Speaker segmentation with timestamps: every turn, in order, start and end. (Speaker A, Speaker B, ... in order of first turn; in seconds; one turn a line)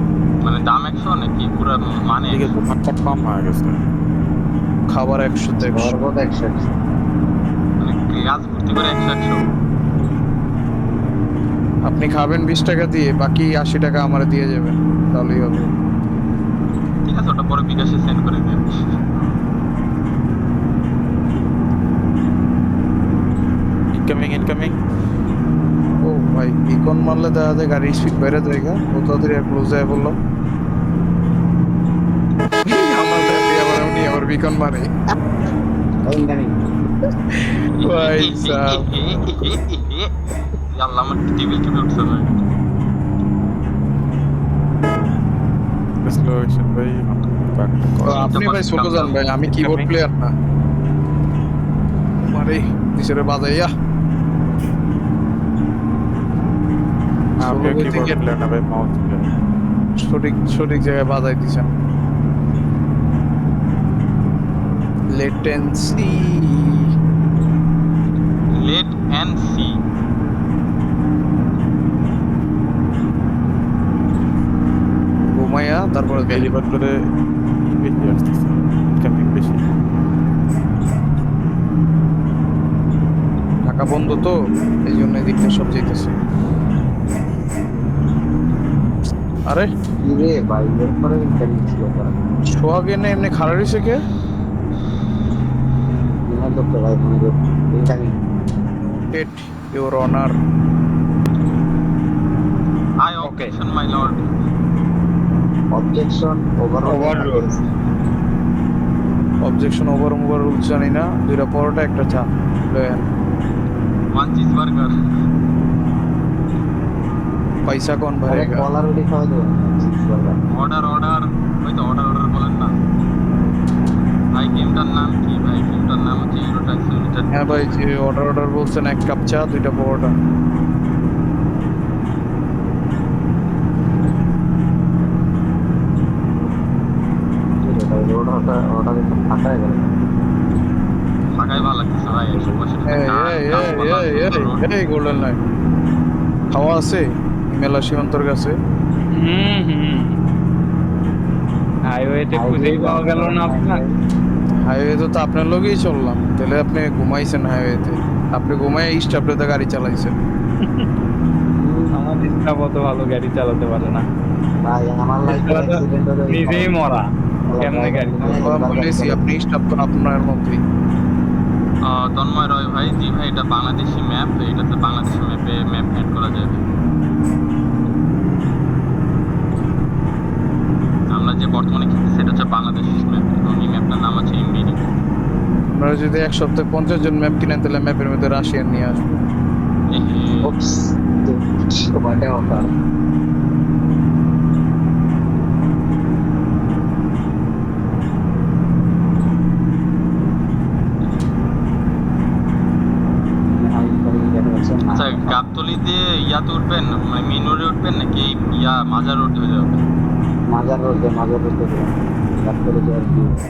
Speaker A: 0.4-2.5
Speaker B: 2.3-3.7
Speaker C: 4.9-6.0
Speaker D: 5.6-6.7
Speaker A: 7.8-9.4
Speaker C: 11.8-15.7
Speaker A: 17.0-18.6
Speaker B: 23.9-24.7
Speaker C: 26.0-30.1
Speaker C: 32.6-34.9
Speaker D: 36.0-36.6
Speaker A: 37.8-40.1
Speaker C: 37.8-38.8
Speaker A: 40.7-42.4
Speaker B: 46.1-48.1
Speaker C: 48.0-50.3
Speaker A: 48.1-49.1
Speaker B: 49.6-49.9
Speaker C: 52.2-53.7
Speaker B: 57.4-59.2
Speaker C: 57.4-58.2
Speaker C: 60.0-61.7
Speaker C: 65.2-66.9
Speaker A: 68.5-69.8
Speaker C: 75.3-76.5
Speaker B: 76.3-76.9
Speaker B: 77.7-79.6
Speaker C: 83.7-86.1
Speaker D: 90.0-92.2
Speaker C: 92.5-94.0
Speaker D: 96.3-98.2
Speaker C: 99.0-100.3
Speaker A: 103.0-104.3
Speaker E: 103.2-103.5
Speaker D: 105.7-107.6
Speaker E: 106.9-107.4
Speaker C: 109.4-113.1
Speaker A: 114.1-114.9
Speaker C: 117.7-118.6
Speaker D: 118.3-120.3
Speaker A: 120.5-122.7
Speaker A: 124.3-127.5
Speaker C: 127.3-130.1
Speaker D: 137.6-139.9
Speaker A: 141.3-144.7
Speaker D: 142.1-142.6
Speaker C: 142.9-145.4
Speaker C: 146.5-148.6
Speaker E: 149.1-150.2
Speaker E: 151.9-153.7
Speaker D: 152.3-153.9
Speaker C: 154.7-160.1
Speaker D: 161.6-162.0
Speaker E: 161.9-164.0
Speaker D: 164.6-166.7
Speaker E: 165.3-165.7
Speaker E: 166.3-167.0
Speaker D: 167.5-169.3
Speaker E: 167.6-168.3
Speaker C: 168.3-170.6
Speaker A: 171.8-176.6
Speaker A: 181.1-184.9
Speaker C: 185.8-189.2
Speaker A: 189.9-190.5
Speaker D: 190.4-192.7
Speaker D: 203.4-205.4
Speaker A: 204.9-209.8
Speaker D: 210.5-213.3